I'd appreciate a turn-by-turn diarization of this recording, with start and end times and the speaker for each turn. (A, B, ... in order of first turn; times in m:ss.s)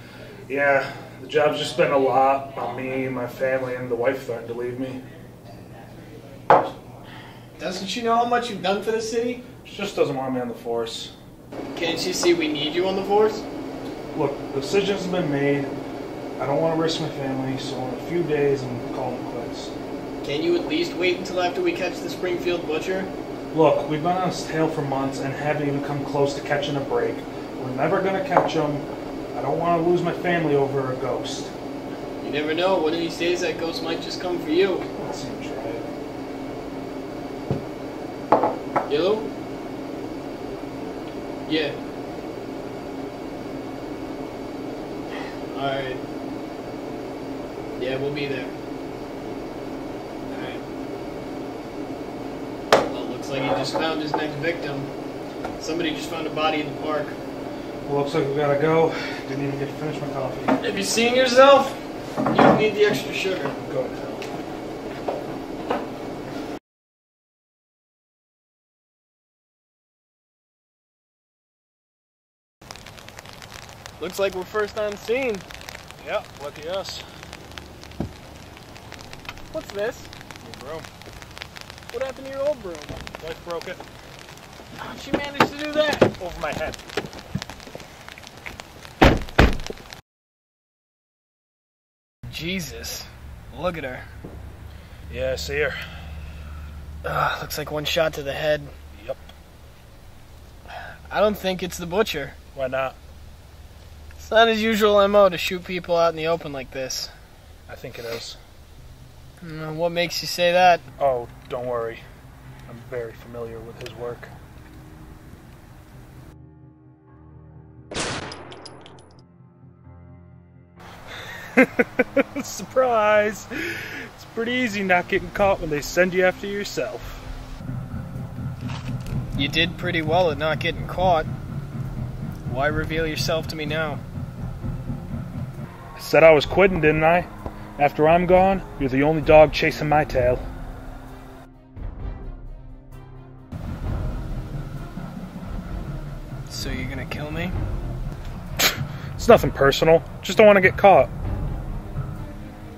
0:00.5-0:05.0 A
0:07.6-0:09.4 B
0:09.6-0:11.1 A
0:11.7-0:13.4 B
0:14.1-0:15.7 A
0:16.4-0:19.7 A
0:20.2-0:23.1 B
0:23.5-0:31.5 A
0:32.2-0:34.9 B
0:35.0-0:35.9 A
0:38.9-0:39.3 B
0:41.5-0:41.8 B
0:45.5-0:46.0 B
0:47.8-0:48.5 B
0:50.3-0:50.6 B
0:52.8-0:54.9 B
0:55.6-0:57.2 B
0:57.9-1:00.6 A
1:00.6-1:03.6 B
1:03.7-1:04.3 A
1:14.0-1:15.4 B
1:16.0-1:17.0 A
1:19.5-1:20.1 B
1:20.4-1:20.9 A
1:21.9-1:23.0 B
1:23.2-1:23.8 A
1:24.8-1:26.1 B
1:26.2-1:26.9 A
1:32.3-1:34.1 B
1:35.1-1:35.8 A
1:37.0-1:38.7 B
1:41.1-1:42.4 B
1:42.5-1:43.0 A
1:44.2-1:47.1 B
1:47.7-1:48.4 A
1:49.4-1:50.8 B
1:51.0-1:52.0 A
1:52.7-1:54.3 A
2:01.6-2:07.3 A
2:09.4-2:11.3 B
2:12.5-2:14.0 B
2:16.0-2:20.4 A
2:26.5-2:27.6 B
2:29.2-2:31.1 A